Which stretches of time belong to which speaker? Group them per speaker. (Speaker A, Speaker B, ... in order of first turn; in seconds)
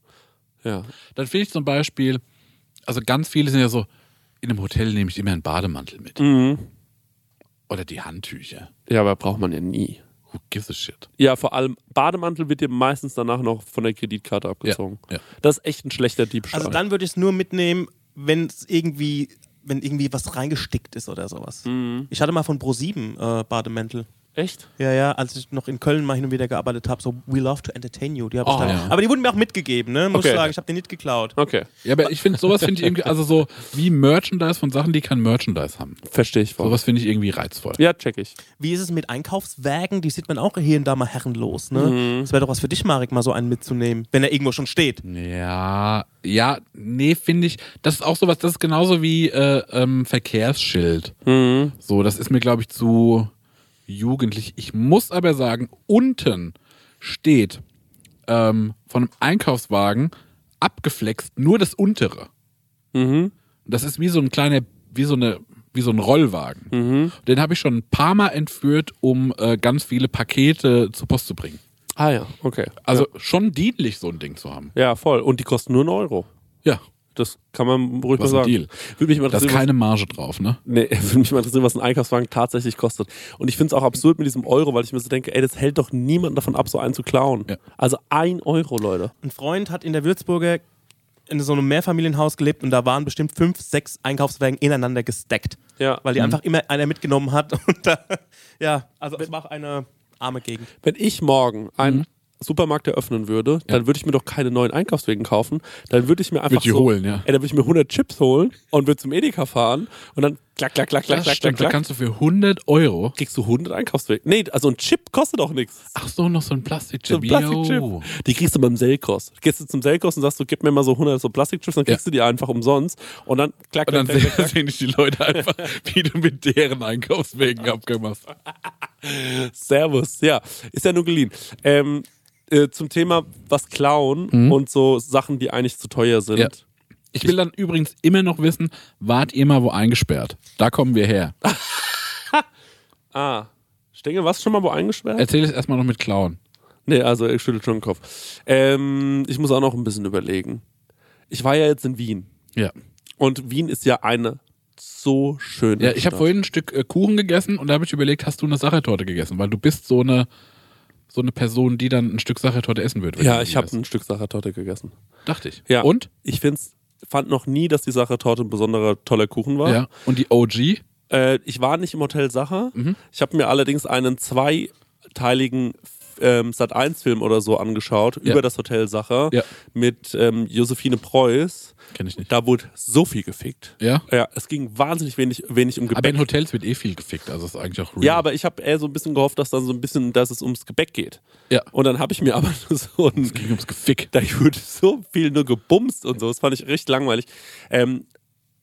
Speaker A: 0.6-0.9, 6.2-6.7, 8.9-10.0, 11.2-16.8, 21.6-22.1, 24.4-24.7, 30.1-30.5, 31.4-33.1, 36.0-36.8, 37.8-38.3, 41.7-42.3, 51.2-51.7, 62.9-63.3, 66.7-67.1, 72.0-73.1, 74.7-76.3, 77.2-79.7, 80.7-89.1, 100.8-111.8, 113.2-115.9, 117.1-124.5, 129.0-136.6, 141.4-142.4, 143.1-145.3, 146.9-150.6, 151.3-152.3, 153.2-156.3, 163.2-164.9, 165.7-169.8, 171.1-186.2, 188.0-191.2, 191.7-193.4, 194.1-198.0
Speaker B: 1.1-2.2, 2.9-3.9, 4.4-6.2, 7.7-8.7, 10.3-11.1, 14.6-15.2, 28.4-28.9, 31.8-36.0, 36.6-37.8, 45.0-51.1, 51.8-53.3, 53.9-57.6, 58.3-62.3, 63.6-71.6, 72.8-74.7, 78.2-78.7, 79.3-80.6, 106.5-107.2, 111.1-113.1, 115.9-118.0, 123.8-128.2, 134.3-134.6, 137.1-141.3, 145.2-146.4, 155.8-160.3, 161.1-163.8, 165.2-166.1, 169.6-170.8, 181.9-182.3, 185.9-188.2, 193.2-194.1
Speaker C: 16.5-24.1, 24.8-31.4, 38.6-45.0, 89.2-90.6, 91.3-100.7